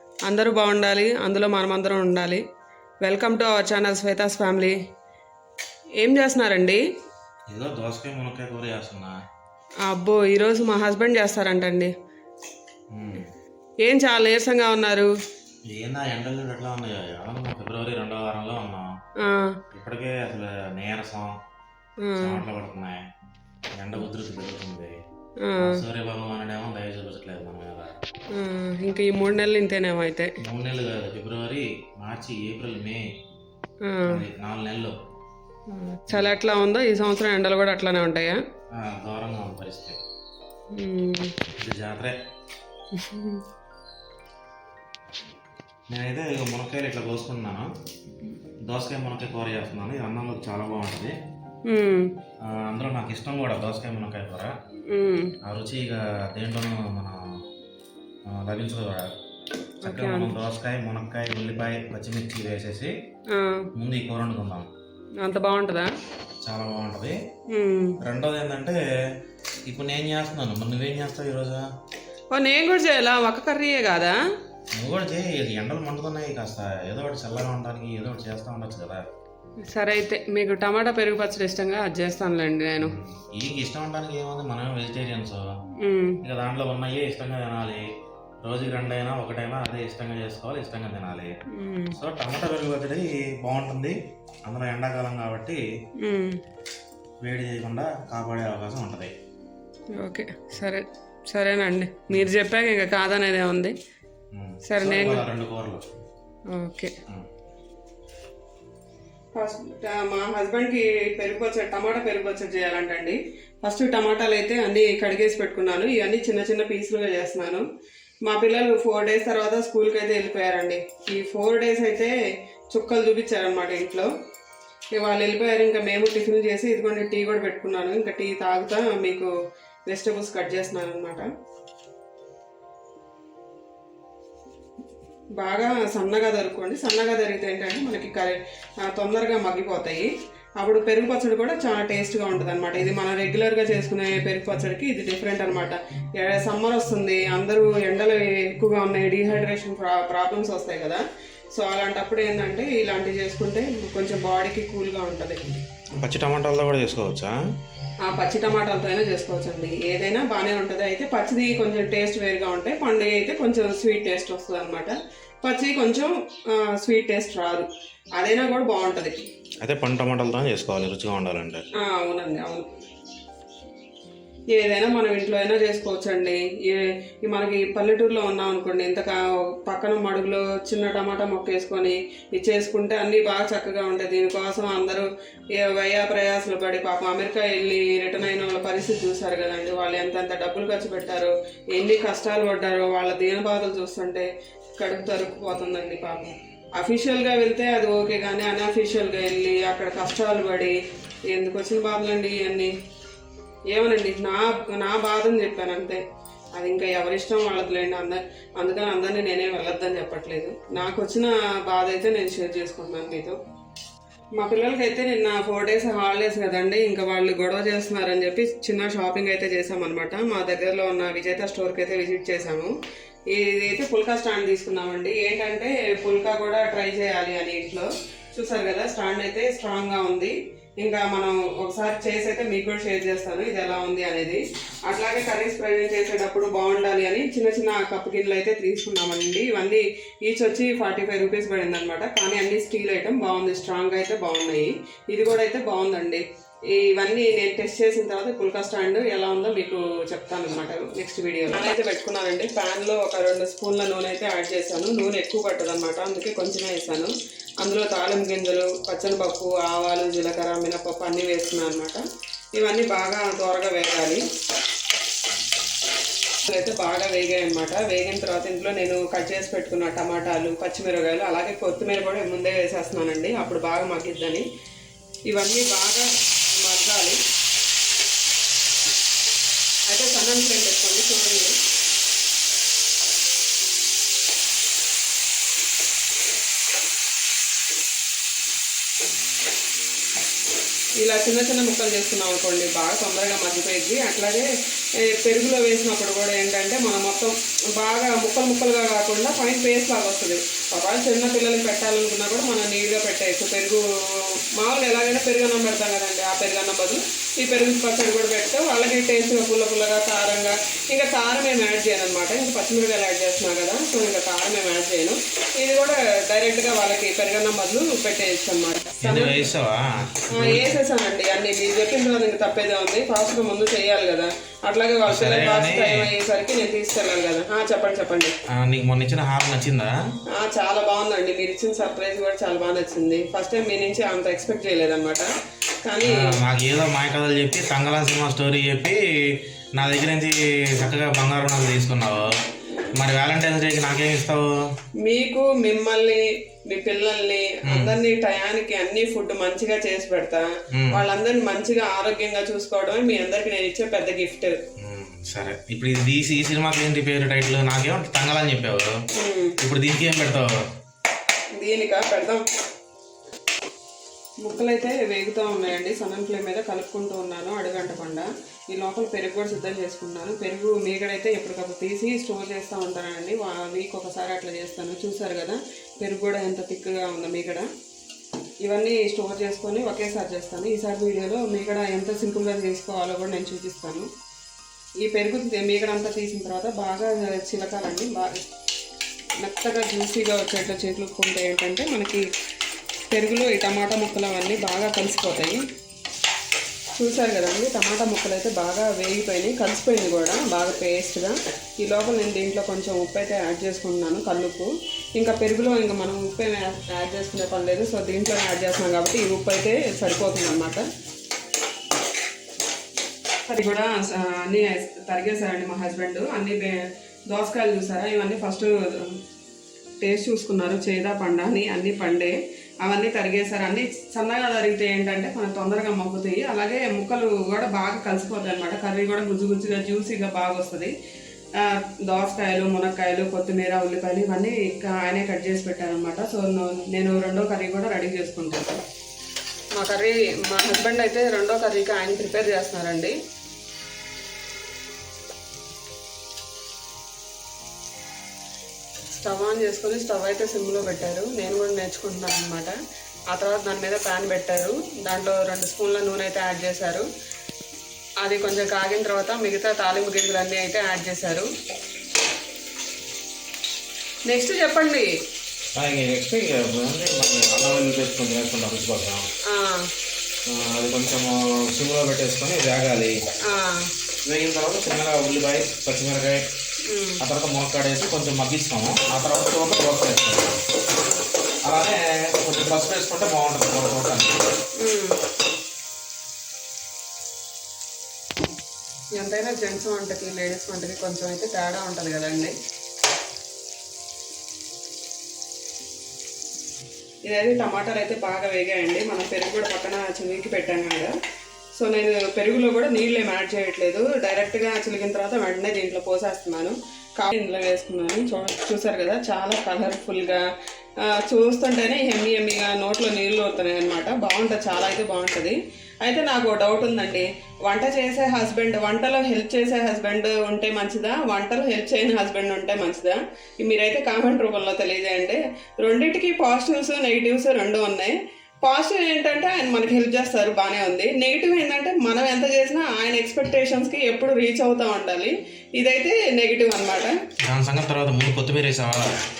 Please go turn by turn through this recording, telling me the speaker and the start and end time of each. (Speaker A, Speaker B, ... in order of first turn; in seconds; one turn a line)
Speaker A: 0.3-2.4
Speaker A: 3.0-4.8
Speaker A: 6.0-6.8
Speaker B: 7.5-9.1
Speaker A: 9.8-11.9
Speaker B: 12.9-13.3
Speaker A: 13.8-15.1
Speaker B: 15.7-18.9
Speaker A: 19.2-19.6
Speaker B: 19.7-21.3
Speaker A: 22.0-22.4
Speaker B: 22.2-23.0
Speaker B: 23.8-25.0
Speaker A: 25.4-25.8
Speaker B: 25.6-28.0
Speaker A: 28.3-30.3
Speaker B: 30.4-33.0
Speaker A: 33.8-34.2
Speaker B: 34.0-34.9
Speaker A: 35.7-38.4
Speaker B: 36.1-36.3
Speaker B: 38.7-40.0
Speaker A: 40.7-41.3
Speaker B: 41.6-42.2
Speaker A: 42.9-43.4
Speaker B: 45.9-47.7
Speaker B: 48.7-51.1
Speaker A: 51.6-52.1
Speaker B: 52.4-54.5
Speaker A: 54.9-55.4
Speaker B: 55.4-57.2
Speaker B: 58.2-59.1
Speaker A: 59.8-60.3
Speaker B: 59.9-62.9
Speaker A: 63.3-63.7
Speaker B: 63.8-64.7
Speaker A: 65.2-65.9
Speaker B: 66.4-67.2
Speaker A: 67.5-68.0
Speaker B: 68.0-68.8
Speaker B: 69.7-71.7
Speaker A: 72.3-74.2
Speaker B: 74.7-79.0
Speaker A: 79.7-83.0
Speaker B: 82.8-85.4
Speaker A: 85.8-86.2
Speaker B: 86.2-87.9
Speaker B: 88.4-91.3
Speaker A: 91.5-92.0
Speaker B: 92.0-95.6
Speaker A: 96.0-96.4
Speaker B: 97.2-99.1
Speaker A: 100.0-103.7
Speaker B: 104.3-105.8
Speaker A: 104.7-105.2
Speaker A: 106.5-106.9
Speaker A: 109.3-117.6
Speaker A: 118.2-122.1
Speaker A: 122.7-124.1
Speaker A: 124.9-129.3
Speaker A: 129.9-131.3
Speaker A: 135.4-151.0
Speaker A: 151.5-155.6
Speaker B: 156.0-157.3
Speaker A: 158.0-169.2
Speaker B: 169.6-171.6
Speaker A: 171.8-172.7
Speaker A: 174.5-185.0
Speaker A: 185.6-200.7
Speaker A: 201.3-202.7
Speaker A: 203.7-206.0
Speaker A: 206.5-213.4
Speaker A: 214.4-222.7
Speaker A: 223.3-262.0
Speaker A: 262.6-264.2
Speaker A: 266.5-274.4
Speaker A: 275.3-277.2
Speaker A: 279.9-281.5
Speaker A: 291.0-294.5
Speaker A: 295.0-319.5
Speaker B: 319.0-320.7
Speaker A: 320.3-328.3
Speaker B: 325.1-326.1
Speaker B: 328.5-329.9
Speaker A: 330.3-335.3
Speaker A: 335.8-336.3
Speaker B: 336.1-342.3
Speaker B: 342.9-344.4
Speaker A: 345.0-354.6
Speaker B: 347.7-347.9
Speaker B: 350.7-351.0
Speaker B: 354.8-358.9
Speaker A: 359.1-359.6
Speaker B: 359.6-360.5
Speaker A: 361.6-362.4
Speaker A: 364.4-377.7
Speaker A: 378.6-384.1
Speaker A: 385.0-388.5
Speaker A: 389.4-392.2
Speaker A: 393.1-395.6
Speaker A: 396.9-410.8
Speaker A: 413.5-419.2
Speaker A: 420.0-430.9
Speaker A: 431.6-438.8
Speaker A: 439.8-443.1
Speaker A: 449.1-452.7
Speaker A: 453.3-457.1
Speaker A: 458.2-461.5
Speaker A: 464.3-465.1
Speaker B: 465.8-469.2
Speaker A: 469.5-469.9
Speaker B: 470.5-473.1
Speaker A: 473.5-473.9
Speaker B: 474.2-476.4
Speaker A: 476.9-477.2
Speaker B: 477.2-480.6
Speaker B: 481.6-484.4
Speaker A: 484.8-485.2
Speaker A: 489.2-492.5
Speaker A: 497.2-501.1
Speaker A: 501.8-510.4
Speaker A: 511.1-537.1
Speaker B: 537.5-539.1